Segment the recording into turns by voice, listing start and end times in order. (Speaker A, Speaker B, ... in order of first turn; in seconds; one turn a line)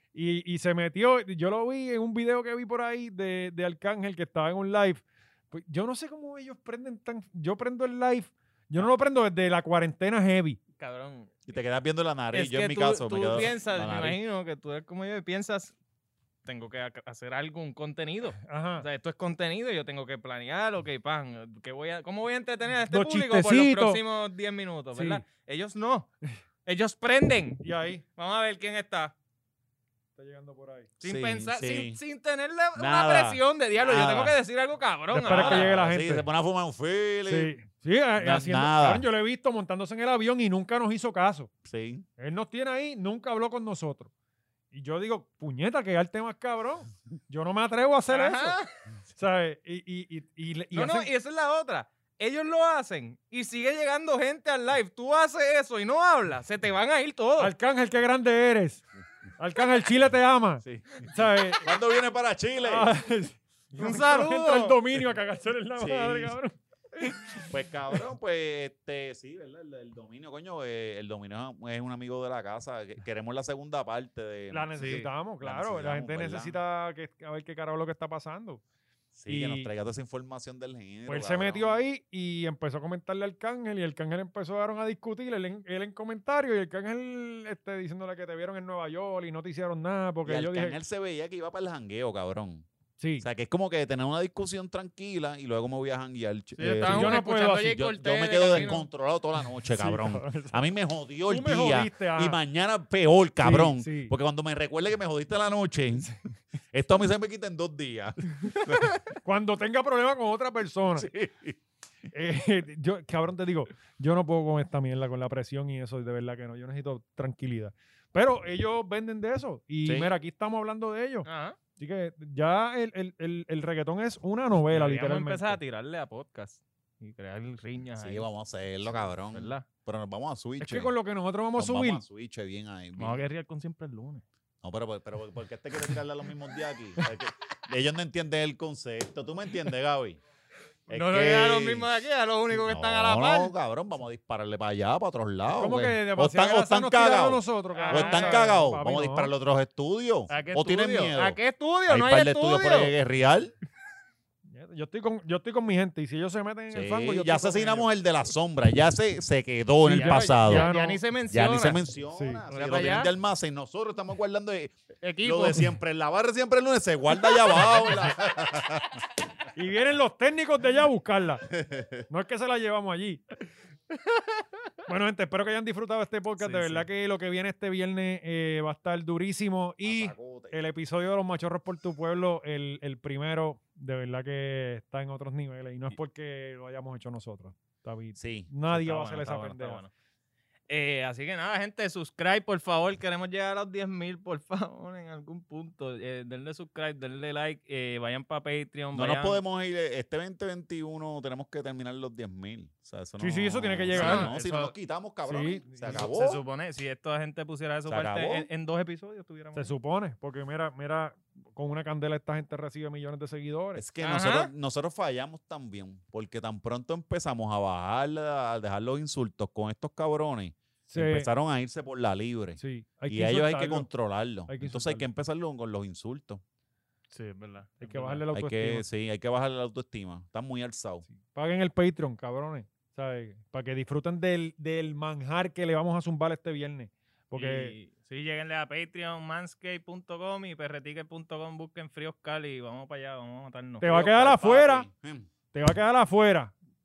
Speaker A: 0.1-10.6
Speaker B: 10.8-11.5
Speaker C: 11.5-14.2
Speaker B: 12.3-15.7
Speaker B: 16.4-26.1
Speaker A: 18.5-18.9
Speaker A: 22.9-24.0
Speaker A: 24.9-25.2
Speaker B: 26.6-27.6
Speaker A: 27.6-28.0
Speaker B: 28.2-29.1
Speaker A: 30.1-30.9
Speaker B: 31.0-35.7
Speaker C: 31.0-32.0
Speaker C: 32.8-34.4
Speaker A: 35.1-36.2
Speaker C: 35.3-37.6
Speaker A: 37.2-41.5
Speaker C: 38.2-39.0
Speaker C: 41.6-42.0
Speaker A: 42.2-44.1
Speaker A: 44.7-48.6
Speaker B: 48.1-48.7
Speaker A: 49.1-51.1
Speaker B: 50.7-57.5
Speaker A: 57.4-58.8
Speaker A: 59.4-61.6
Speaker C: 60.6-62.9
Speaker A: 62.6-67.4
Speaker B: 63.8-64.8
Speaker C: 65.8-66.3
Speaker C: 67.4-76.6
Speaker A: 74.5-78.6
Speaker B: 74.8-75.1
Speaker C: 79.1-81.7
Speaker A: 79.3-79.7
Speaker A: 81.0-90.8
Speaker C: 90.2-92.7
Speaker A: 93.0-93.2
Speaker C: 93.2-106.1
Speaker B: 96.5-98.8
Speaker A: 96.8-97.8
Speaker A: 99.8-100.6
Speaker A: 101.3-102.4
Speaker A: 103.4-104.1
Speaker C: 106.7-108.9
Speaker A: 109.2-111.1
Speaker C: 111.0-111.6
Speaker A: 112.1-125.6
Speaker C: 119.8-120.1
Speaker B: 121.2-121.6
Speaker B: 124.7-128.2
Speaker C: 128.0-130.9
Speaker B: 128.8-129.7
Speaker A: 130.6-132.0
Speaker C: 131.6-133.3
Speaker B: 133.0-134.2
Speaker C: 134.6-140.2
Speaker C: 140.9-141.9
Speaker B: 140.9-143.5
Speaker C: 142.5-153.5
Speaker A: 145.5-149.3
Speaker B: 147.7-148.5
Speaker B: 150.3-152.9
Speaker A: 154.4-157.9
Speaker C: 156.7-160.7
Speaker A: 159.8-161.0
Speaker B: 159.9-161.8
Speaker C: 161.3-169.0
Speaker A: 162.1-162.4
Speaker B: 162.5-163.1
Speaker B: 165.0-165.7
Speaker A: 169.5-171.4
Speaker C: 171.5-172.0
Speaker A: 172.1-173.2
Speaker A: 174.9-189.8
Speaker B: 176.4-176.8
Speaker C: 179.8-180.6
Speaker C: 188.1-188.5
Speaker B: 188.7-189.9
Speaker B: 190.7-199.4
Speaker C: 198.9-206.4
Speaker A: 203.2-204.3
Speaker B: 203.9-204.7
Speaker A: 205.2-206.1
Speaker B: 205.8-209.7
Speaker C: 207.9-208.5
Speaker A: 209.5-213.8
Speaker C: 213.7-226.4
Speaker B: 214.0-214.5
Speaker A: 220.9-221.3
Speaker A: 222.6-223.9
Speaker A: 224.5-225.0
Speaker B: 227.1-228.2
Speaker A: 227.8-228.8
Speaker C: 228.3-231.0
Speaker A: 231.1-237.7
Speaker B: 237.3-243.9
Speaker A: 243.8-244.9
Speaker C: 243.8-245.3
Speaker A: 245.5-246.5